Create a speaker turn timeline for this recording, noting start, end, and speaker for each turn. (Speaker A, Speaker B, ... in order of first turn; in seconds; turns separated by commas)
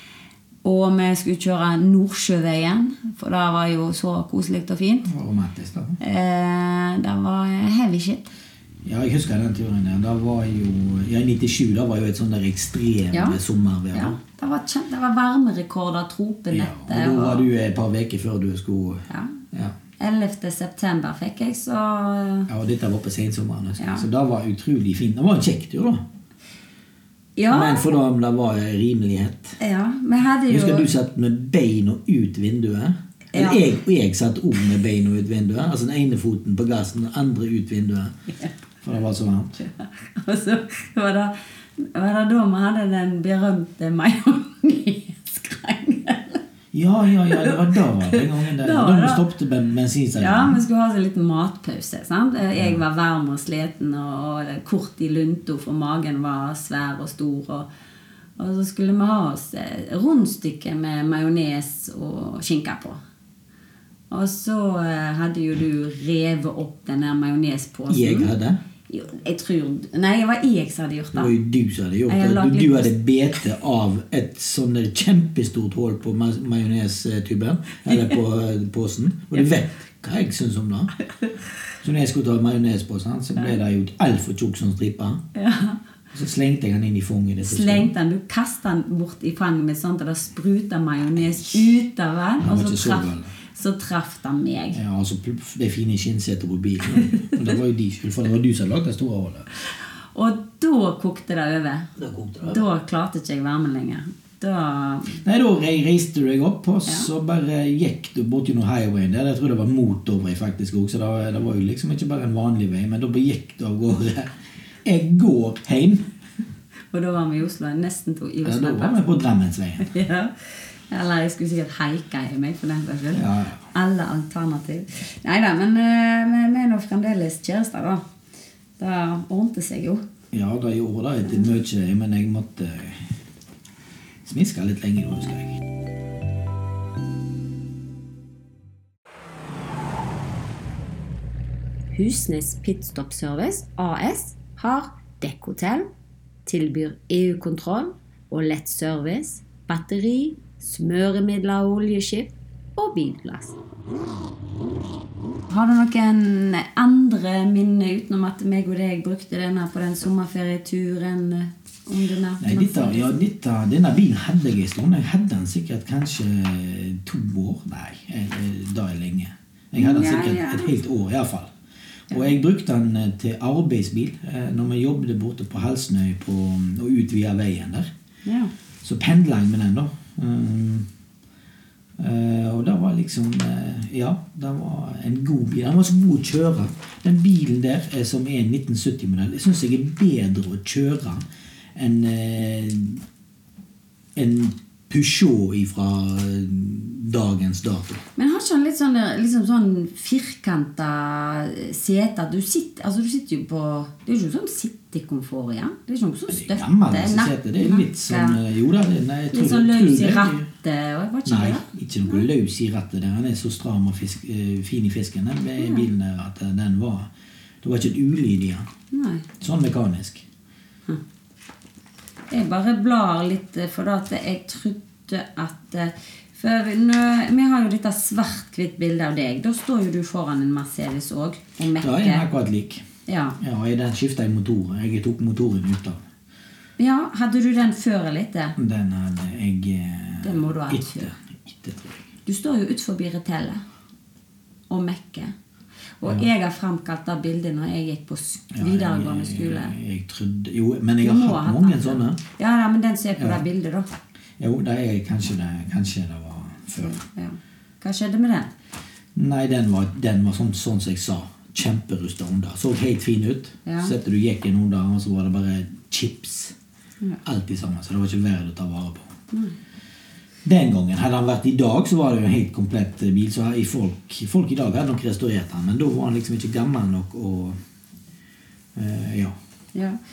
Speaker A: 0.6-5.1, Speaker B: 5.0-6.0, Speaker A: 6.0-8.3, Speaker B: 8.8-14.2, Speaker A: 13.1-13.4, Speaker A: 13.9-17.5, Speaker B: 16.5-19.7, Speaker A: 19.1-19.3, Speaker A: 20.0-22.5, Speaker B: 22.5-26.0, Speaker A: 23.8-24.1, Speaker A: 27.4-27.9, Speaker B: 27.5-29.6, Speaker A: 29.6-30.9, Speaker B: 30.5-38.2, Speaker A: 33.3-33.6, Speaker B: 38.8-39.6, Speaker A: 39.6-46.4, Speaker B: 46.7-50.6, Speaker A: 47.3-49.2, Speaker A: 50.2-57.7, Speaker A: 58.4-63.0, Speaker A: 64.1-68.3, Speaker B: 67.9-68.6, Speaker A: 68.9-71.3, Speaker B: 71.1-80.9, Speaker A: 72.1-72.9, Speaker A: 77.9-78.2, Speaker B: 81.8-85.2, Speaker A: 85.3-85.8, Speaker B: 86.1-87.9, Speaker A: 87.4-94.8, Speaker B: 92.4-93.3, Speaker B: 94.7-99.5, Speaker A: 99.7-101.9, Speaker B: 102.0-102.6, Speaker A: 102.4-105.2, Speaker B: 105.2-116.1, Speaker A: 116.9-119.0, Speaker B: 118.4-119.9, Speaker A: 119.8-128.0, Speaker B: 123.1-123.6, Speaker A: 128.8-130.0, Speaker B: 130.3-133.1, Speaker B: 134.2-135.6, Speaker A: 141.9-145.9, Speaker A: 146.4-153.6, Speaker A: 155.5-163.2, Speaker B: 162.4-171.5, Speaker A: 169.8-170.8, Speaker B: 172.1-177.9, Speaker A: 178.2-178.5, Speaker B: 178.8-180.9, Speaker B: 182.0-193.0, Speaker B: 194.1-198.0, Speaker A: 198.2-208.4, Speaker B: 206.3-210.5, Speaker A: 209.3-212.2, Speaker B: 211.2-217.1, Speaker A: 215.6-215.8, Speaker B: 217.6-218.7, Speaker A: 218.9-219.2, Speaker B: 219.4-220.2, Speaker A: 222.3-232.3, Speaker B: 231.8-232.8, Speaker A: 233.1-233.4, Speaker B: 233.4-236.0, Speaker A: 236.8-238.6, Speaker B: 238.6-242.0, Speaker A: 240.2-241.1, Speaker A: 242.2-243.6, Speaker A: 244.7-245.3, Speaker A: 246.0-249.7, Speaker B: 248.5-252.2, Speaker A: 251.0-253.9, Speaker B: 253.2-253.4, Speaker B: 254.4-257.0, Speaker A: 256.7-258.5, Speaker B: 259.1-266.5, Speaker A: 263.6-263.9, Speaker B: 267.2-269.1, Speaker A: 269.3-269.6, Speaker B: 270.4-277.6, Speaker B: 278.7-279.4